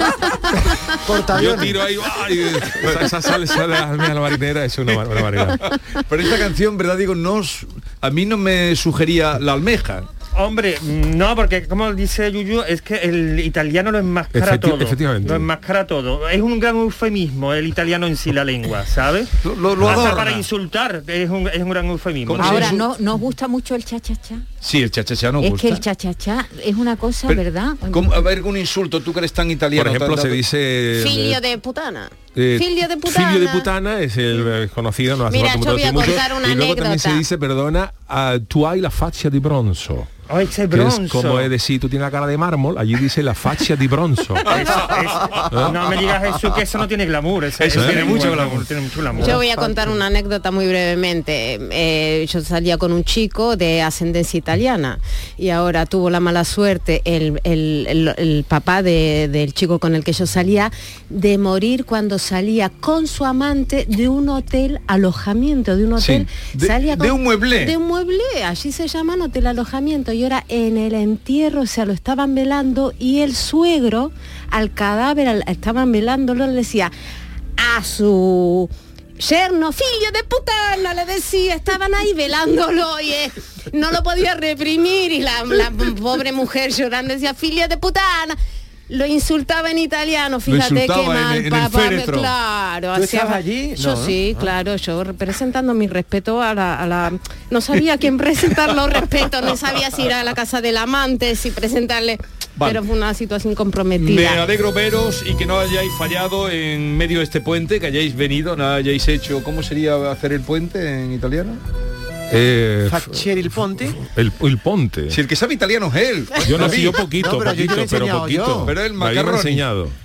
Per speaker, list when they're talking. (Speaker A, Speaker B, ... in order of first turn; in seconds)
Speaker A: 1.0-1.8, 92.9-94.5, 112.8-114.0, 116.6-118.7
Speaker B: 1.3-5.6, 14.3-15.5, 19.7-20.4, 29.7-31.4, 32.3-40.1, 40.7-44.9, 45.4-45.9, 47.7-48.4, 112.3-113.2, 114.0-115.2, 116.4-119.9
Speaker C: 5.6-10.1, 19.4-20.4, 22.3-22.8, 24.6-25.8, 27.3-30.4, 44.5-44.8, 47.6-49.4, 66.0-67.8, 90.5-92.3, 104.0-111.6, 115.1-117.0, 118.7-119.7
Speaker D: 10.3-22.7, 40.3-41.5, 44.8-49.4
Speaker E: 22.4-24.4, 25.4-28.3
Speaker F: 30.9-33.7, 35.3-37.2, 49.2-76.9, 77.6-88.3, 88.9-104.4